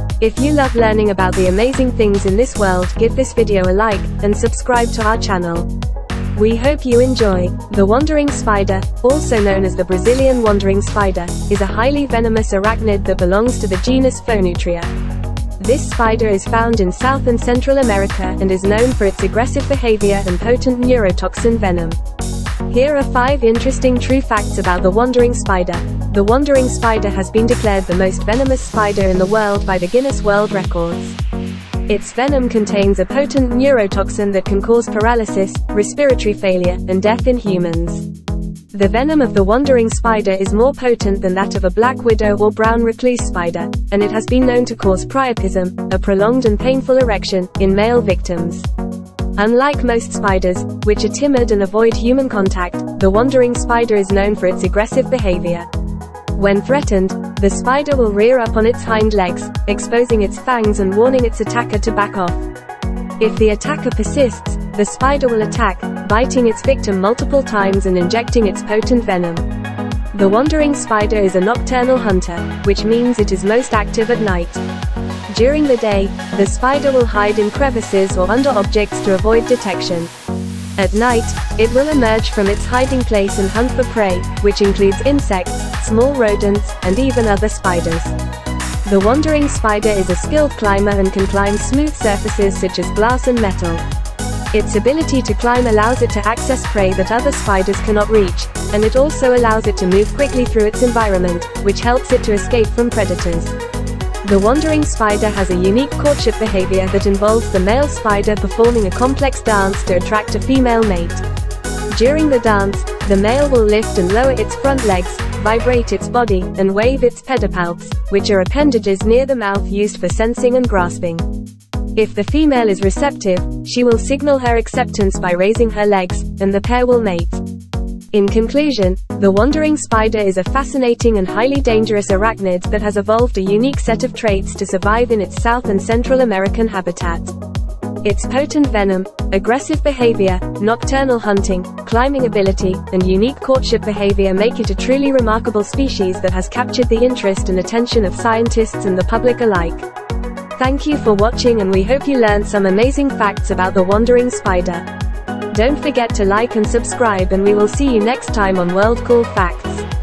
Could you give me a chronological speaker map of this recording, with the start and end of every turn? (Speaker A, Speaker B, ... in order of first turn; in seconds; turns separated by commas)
Speaker A: 0.2-5.7, Speaker A: 6.3-14.9, Speaker A: 15.6-22.0, Speaker A: 22.7-31.2, Speaker A: 31.9-38.1, Speaker A: 38.7-48.7, Speaker A: 49.4-55.7, Speaker A: 56.3-62.5, Speaker A: 63.2-69.5, Speaker A: 70.1-74.6, Speaker A: 75.3-80.1, Speaker A: 80.8-88.2, Speaker A: 88.8-93.8, Speaker A: 94.5-103.5, Speaker A: 104.2-111.2, Speaker A: 111.9-121.3, Speaker A: 122.0-127.4, Speaker A: 128.1-137.3, Speaker A: 138.0-149.9, Speaker A: 150.6-154.9, Speaker A: 155.5-159.9